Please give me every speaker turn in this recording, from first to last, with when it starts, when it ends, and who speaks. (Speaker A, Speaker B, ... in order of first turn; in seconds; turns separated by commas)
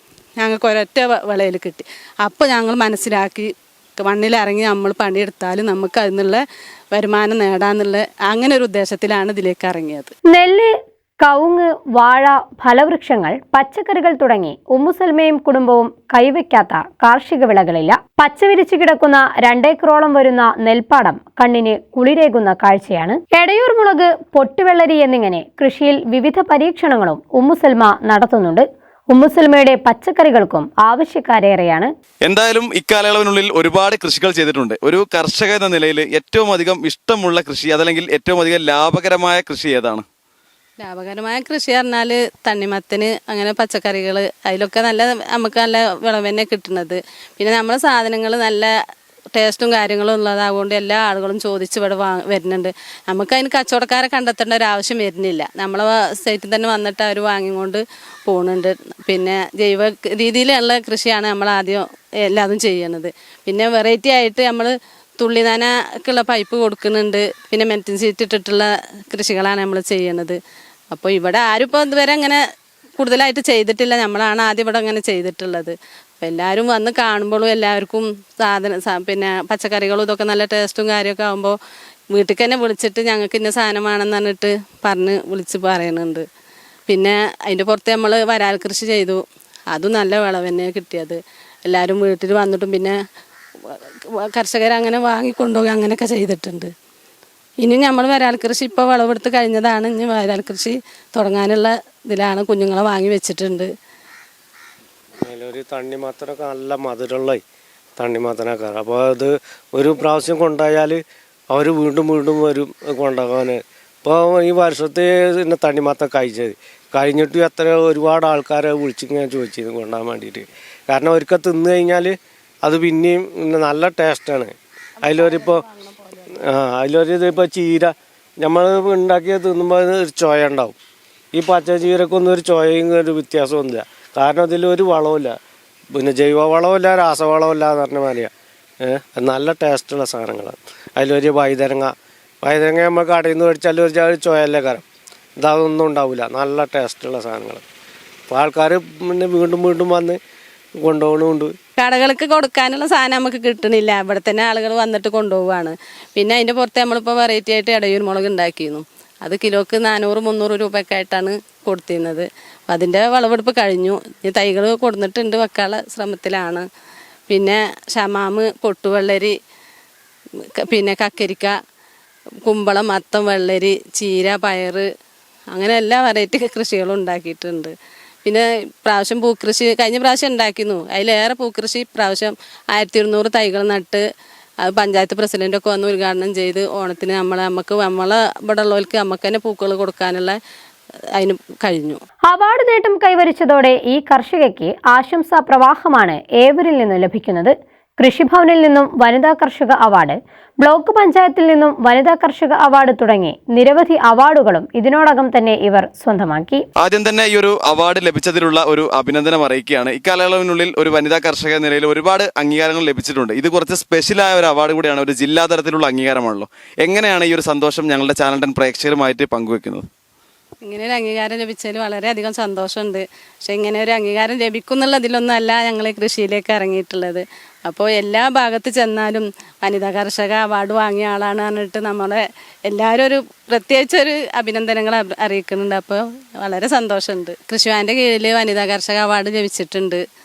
Speaker A: 0.4-10.1, Speaker B: 10.3-10.7, Speaker B: 11.2-31.9, Speaker C: 32.2-40.0, Speaker A: 40.8-48.7, Speaker A: 49.3-70.4, Speaker A: 70.9-72.4, Speaker A: 73.0-81.5, Speaker A: 82.1-86.2, Speaker A: 86.9-93.0, Speaker A: 94.3-96.7, Speaker A: 97.6-103.7, Speaker D: 105.2-107.4, Speaker D: 108.0-111.0, Speaker D: 111.5-125.6, Speaker A: 125.0-126.3, Speaker D: 126.4-130.8, Speaker D: 131.3-135.3, Speaker D: 135.9-138.3, Speaker D: 138.8-144.8, Speaker D: 145.4-147.6, Speaker D: 148.3-150.2, Speaker D: 150.8-151.5, Speaker A: 151.8-166.7, Speaker A: 167.3-169.3, Speaker A: 170.6-171.5, Speaker A: 172.4-174.8, Speaker A: 175.5-177.7, Speaker A: 178.2-184.0, Speaker A: 184.6-190.3, Speaker A: 191.2-192.0, Speaker B: 192.3-206.6, Speaker C: 206.8-219.8, Speaker A: 220.6-240.0